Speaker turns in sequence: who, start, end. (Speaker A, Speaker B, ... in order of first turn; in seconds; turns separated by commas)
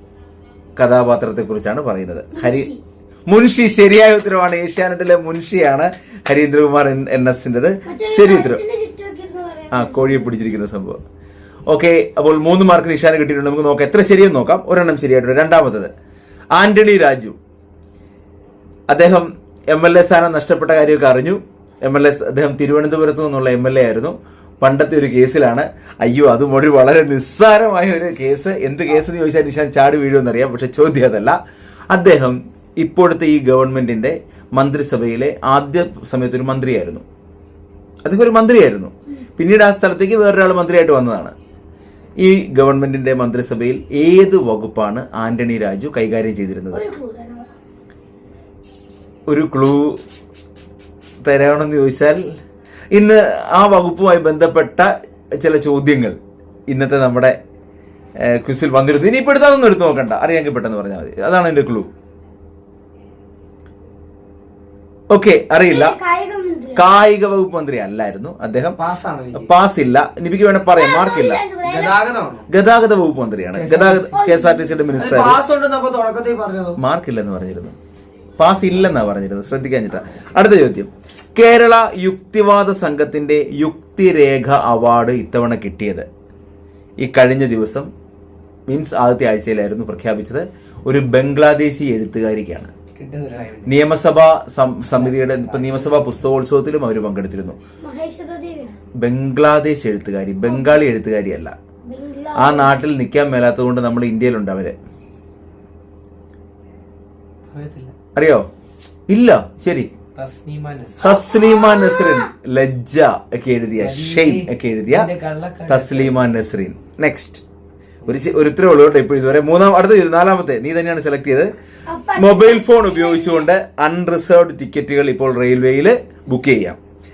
Speaker A: 0.8-2.7, Speaker B: 2.3-2.8, Speaker A: 3.3-8.6, Speaker B: 7.8-10.4, Speaker A: 9.7-11.0, Speaker A: 11.7-15.9, Speaker A: 16.5-17.4, Speaker A: 18.9-31.4, Speaker A: 31.9-37.0, Speaker A: 38.0-41.3, Speaker A: 42.2-46.8, Speaker B: 46.7-47.5, Speaker A: 49.3-50.0, Speaker A: 51.2-52.4, Speaker A: 52.9-56.2, Speaker A: 56.7-57.4, Speaker A: 58.2-61.9, Speaker A: 65.1-66.0, Speaker B: 65.6-66.9, Speaker A: 66.7-68.8, Speaker C: 68.8-69.5, Speaker A: 69.3-71.4, Speaker B: 70.8-72.0, Speaker C: 71.6-72.5, Speaker A: 72.5-75.4, Speaker C: 73.5-74.1, Speaker B: 74.1-75.1, Speaker C: 75.0-76.8, Speaker A: 76.8-77.8, Speaker A: 78.4-86.1, Speaker A: 87.0-87.9, Speaker A: 88.7-92.7, Speaker C: 93.0-93.8, Speaker A: 93.7-97.6, Speaker C: 94.9-96.1, Speaker B: 97.8-98.8, Speaker A: 99.0-101.5, Speaker B: 100.5-100.8, Speaker B: 101.9-102.8, Speaker A: 102.3-104.8, Speaker C: 107.5-107.9, Speaker A: 108.1-108.5, Speaker A: 109.1-109.9, Speaker C: 110.1-111.1, Speaker A: 111.0-115.1, Speaker B: 111.0-112.3, Speaker C: 113.8-116.2, Speaker A: 115.7-117.4, Speaker A: 118.1-121.5, Speaker B: 121.9-123.5, Speaker A: 122.2-126.8